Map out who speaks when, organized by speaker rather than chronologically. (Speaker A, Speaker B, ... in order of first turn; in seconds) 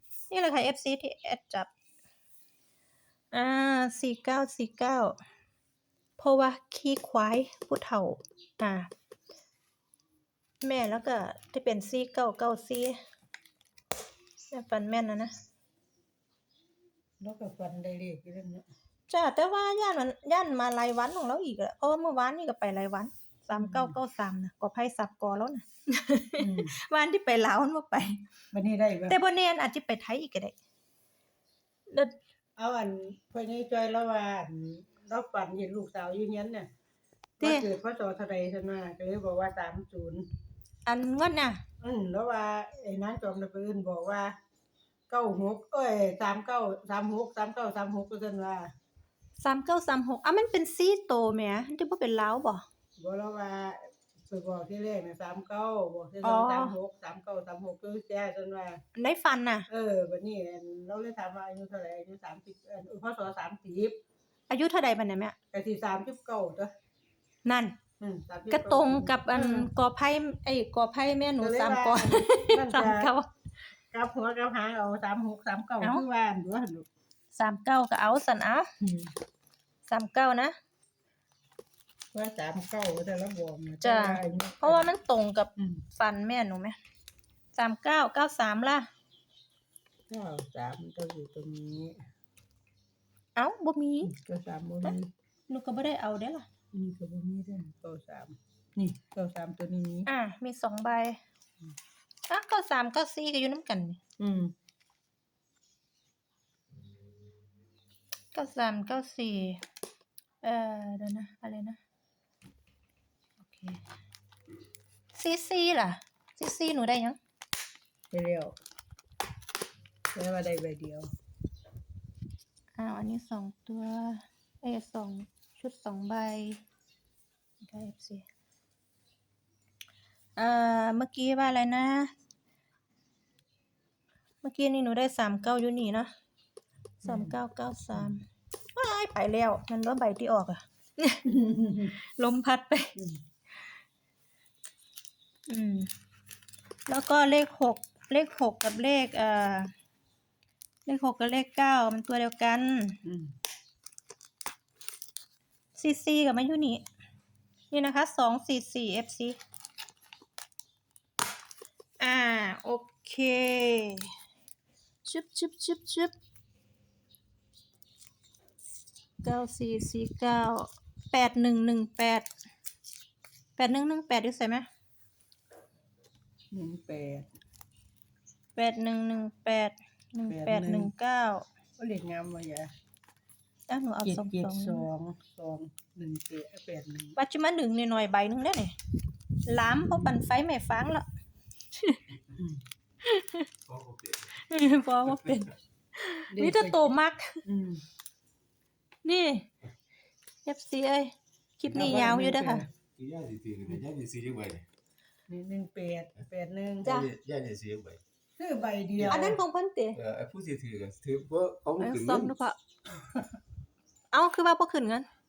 Speaker A: 0.3-1.7, 3.3-5.2, 6.2-8.9, 10.6-13.0, 14.5-15.4, 19.1-28.2, 29.1-30.5, 31.9-32.1, 37.4-37.7, 40.9-41.6, 49.4-52.6, 56.2-56.8, 59.0-59.7, 64.5-65.3, 67.5-67.8, 68.5-73.3, 77.3-78.7, 79.9-80.6, 83.8-86.8, 87.5-88.9, 93.4-94.1, 95.5-96.5, 100.1-101.2, 102.3-104.0, 108.3-109.6, 110.4-111.8, 113.4-113.8, 115.1-117.2, 122.8-126.6, 127.6-128.2, 130.4-132.1, 134.4-136.1, 137.0-141.2, 142.0-142.9, 145.5-145.9, 146.9-149.7, 150.9-153.0, 155.8-156.8, 157.7-159.4, 162.0-164.1, 165.1-166.1, 169.2-172.3, 173.6-174.7, 178.6-181.4, 183.7-184.9, 187.2-188.8, 189.5-191.1, 193.0-193.5, 194.4-197.4, 199.0-199.5, 200.5-202.7, 206.8-207.1, 209.1-210.0, 211.8-212.6, 214.1-215.1
Speaker B: 17.2-18.6, 23.6-24.0, 26.4-26.7, 28.5-29.2, 32.6-36.7, 37.4-40.2, 41.8-44.3, 45.1-48.7, 53.0-58.8, 59.7-64.0, 65.5-66.7, 68.0-69.7, 71.4-73.1, 73.9-76.9, 78.8-79.1, 82.1-84.9, 85.6-85.8, 90.1-92.0, 94.0-95.1, 96.7-100.1, 104.2-104.5, 118.1-118.6, 120.1-121.1, 137.1-137.3, 141.3-141.9, 153.0-153.3, 176.5-177.3, 180.2-180.9, 181.8-182.7, 184.1-187.2, 196.3-196.8, 197.4-197.8, 201.7-202.7, 205.3-206.9, 208.4-209.4
Speaker C: 193.7-194.3, 203.0-204.6, 206.8-208.0, 209.0-209.2, 210.0-212.3